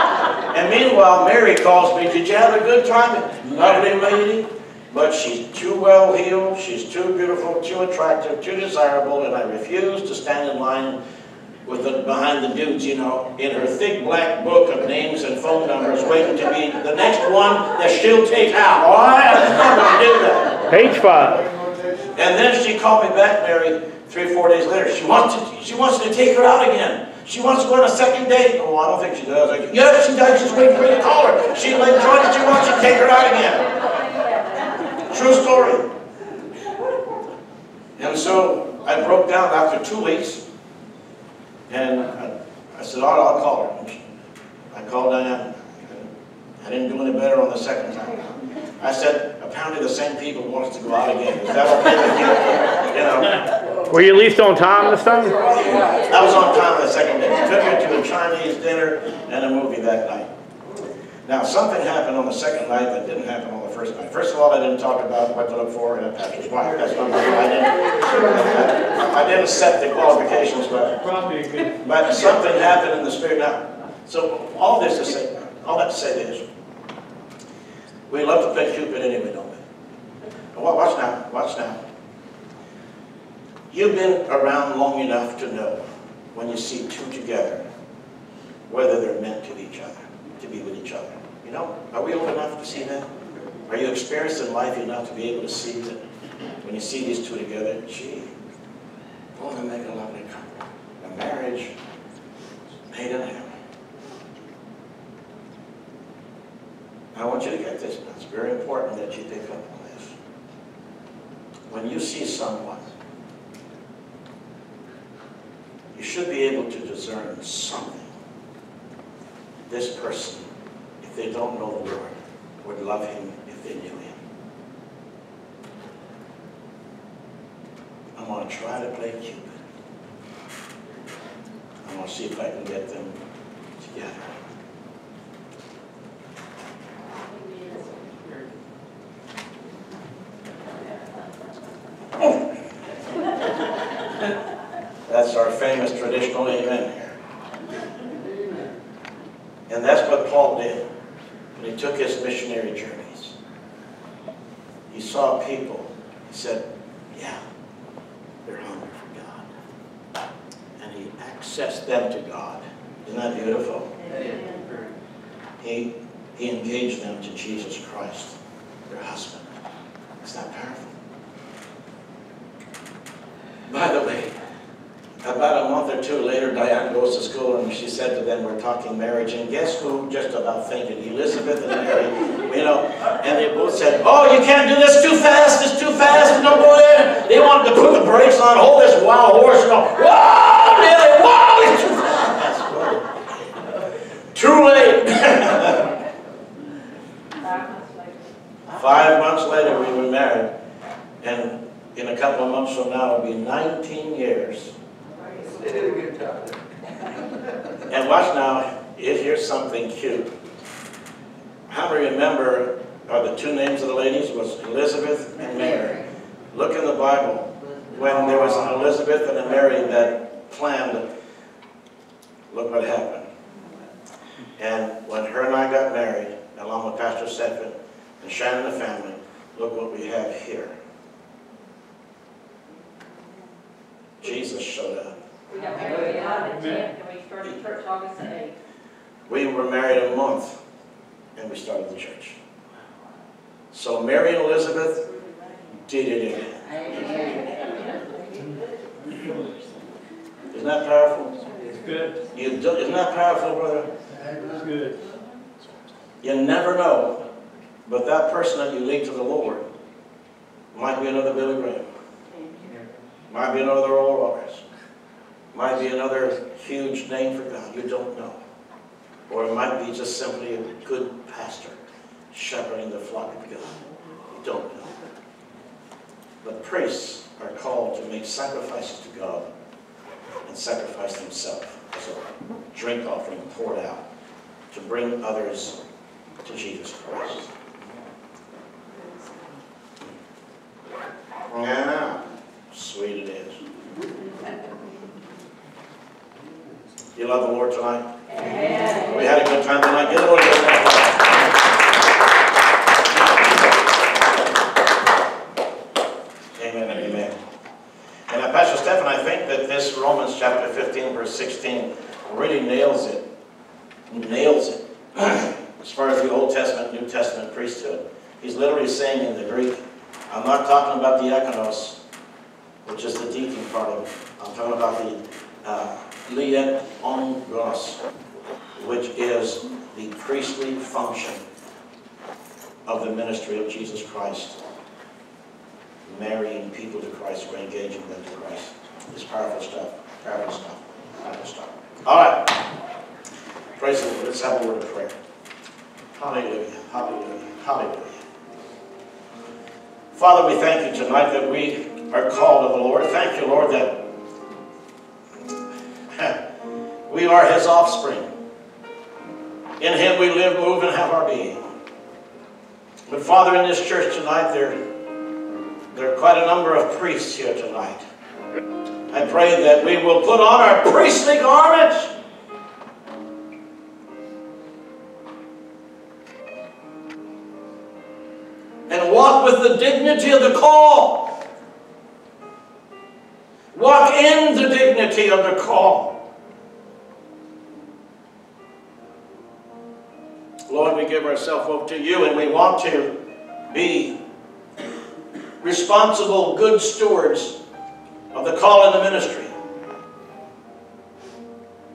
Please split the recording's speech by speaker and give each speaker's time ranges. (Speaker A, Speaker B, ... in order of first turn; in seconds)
Speaker A: 0.5-11.0, 11.7-20.6, 22.1-33.7, 35.1-35.8, 38.0-40.4, 41.7-44.0, 44.7-46.1, 46.6-53.5, 55.6-60.3, 61.2-71.2, 71.8-76.5, 78.1-79.6, 80.5-81.8, 83.7-87.6, 88.7-93.1, 93.7-96.0, 96.6-98.3, 99.3-101.7, 102.9-103.5, 107.1-110.1, 111.7-112.8, 115.9-118.1, 119.7-120.5, 121.0-124.2, 128.2-129.6, 131.8-133.2, 133.8-134.3, 145.1-147.2, 149.7-150.8, 151.6-153.3, 154.9-157.4, 158.4-159.5, 160.8-163.9, 165.6-168.3, 168.9-169.5, 170.2-170.9, 173.7-174.3, 175.2-193.1, 194.3-195.9, 198.7-200.5, 201.2-204.7, 207.9-210.3, 211.7-221.0, 222.5-223.3, 224.6-230.7, 234.2-235.1, 239.3-240.6, 241.3-242.4, 243.7-245.0, 245.8-246.6, 250.5-251.5, 252.3-253.9, 256.2-257.2, 257.8-259.6, 260.7-261.8, 263.3-264.6, 265.5-268.4, 269.3-271.8, 272.3-273.8, 274.4-274.9, 276.4-279.4, 280.4-284.0, 284.7-285.8, 286.4-287.5, 291.5-293.6, 297.1-298.0, 299.0-301.3, 306.6-307.3, 308.3-313.2, 314.1-322.0, 322.8-328.0, 328.8-331.4, 332.9-334.6, 336.1-342.6, 343.8-345.1, 346.1-348.2, 350.1-354.0, 357.1-358.3, 359.8-361.6, 363.1-364.8, 365.9-368.0, 369.1-372.1, 378.9-381.4, 383.7-386.2, 390.7-393.1, 393.7-394.1, 395.6-397.6, 398.3-399.5
Speaker B: 20.7-21.4, 53.8-55.5, 71.3-71.6
Speaker C: 33.6-35.0, 137.5-137.8, 197.4-198.2, 235.5-238.6
Speaker D: 164.0-164.9, 205.0-206.3, 246.7-249.6, 251.7-252.2, 254.6-254.9, 262.4-262.8, 288.9-289.5